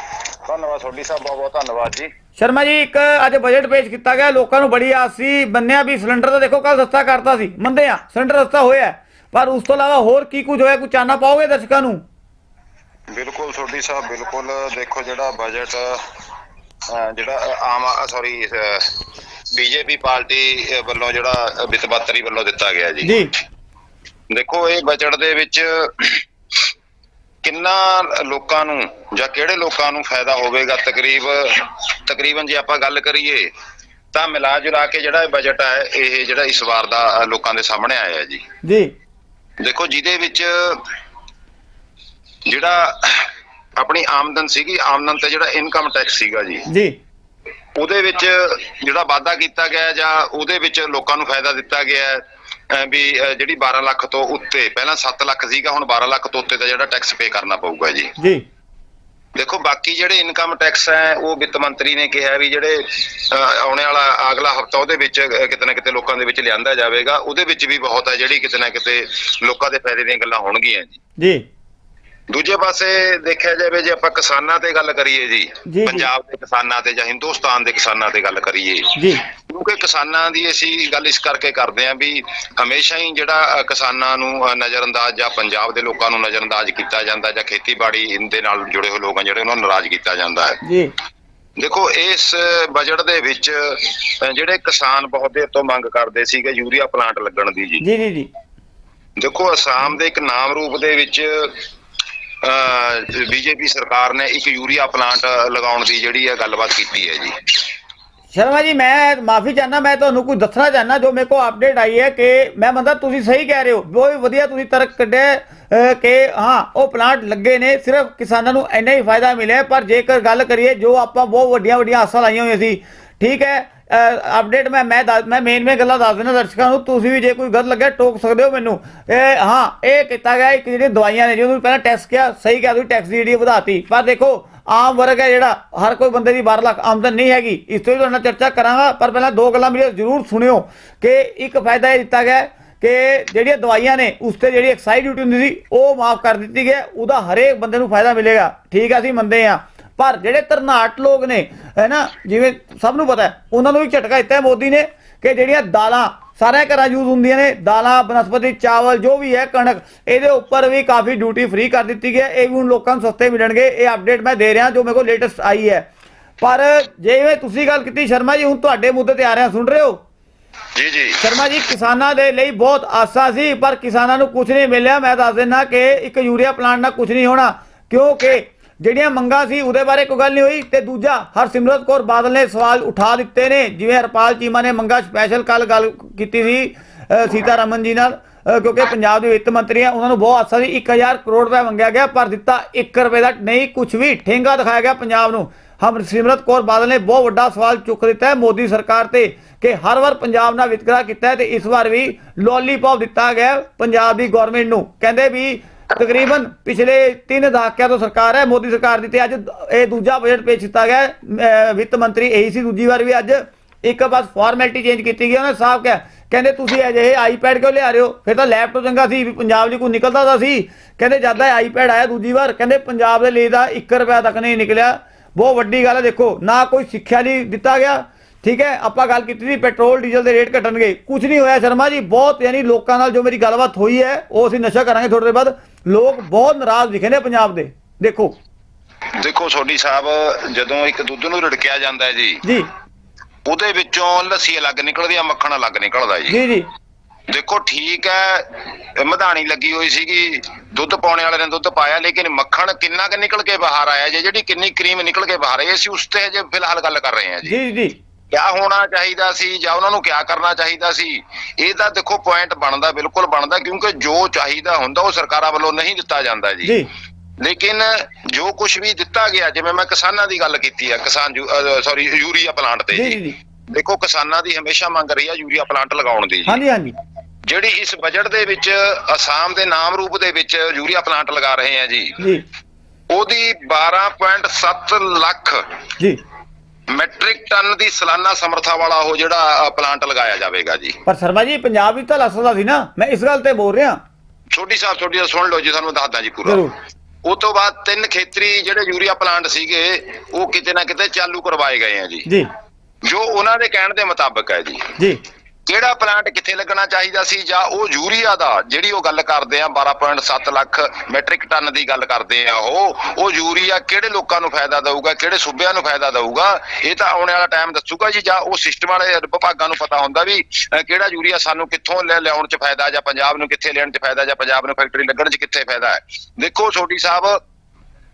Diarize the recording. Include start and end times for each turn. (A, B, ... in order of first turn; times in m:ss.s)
0:00.4-0:02.1 A
0:02.4-0:12.0 B
0:13.1-0:16.0 A
0:16.9-0:18.9 A
0:19.5-0:23.2 A
0:23.0-0:23.3 B
0:24.3-0:26.2 A
0:27.4-0:33.5 A
0:34.1-0:38.4 A
0:38.6-0:38.9 B
0:39.6-0:40.8 A
0:42.5-0:46.7 A
0:46.7-0:47.0 B
0:47.8-0:58.1 A
0:58.2-0:58.4 B
0:59.4-1:11.0 A
1:11.2-1:11.4 B
1:12.3-1:30.6 A
1:15.7-1:16.1 B
1:19.0-1:19.2 B
1:30.6-1:30.9 B
1:31.6-1:37.8 A
1:37.8-1:38.3 B
1:39.2-1:41.6 A
1:42.4-1:47.4 A
1:48.3-2:45.9 B
2:46.4-2:50.0 B
2:50.7-2:51.2 A
2:51.2-3:58.3 B
3:59.2-4:02.4 A
4:02.4-4:02.7 B
4:03.4-4:06.4 A
4:06.3-4:06.6 B
4:07.3-4:17.6 A
4:17.4-4:18.0 B
4:18.3-4:26.8 A
4:27.4-4:33.2 A
4:32.9-4:33.4 B
4:33.7-4:36.6 A
4:36.5-4:37.0 B
4:37.4-4:42.2 A
4:42.2-4:42.4 B
4:43.1-4:45.6 A
4:46.9-4:51.0 A
4:51.0-4:54.0 B
4:54.5-4:56.6 A
4:56.4-4:56.7 B
4:57.2-5:02.3 A
5:03.0-5:04.9 A
5:05.7-5:27.4 A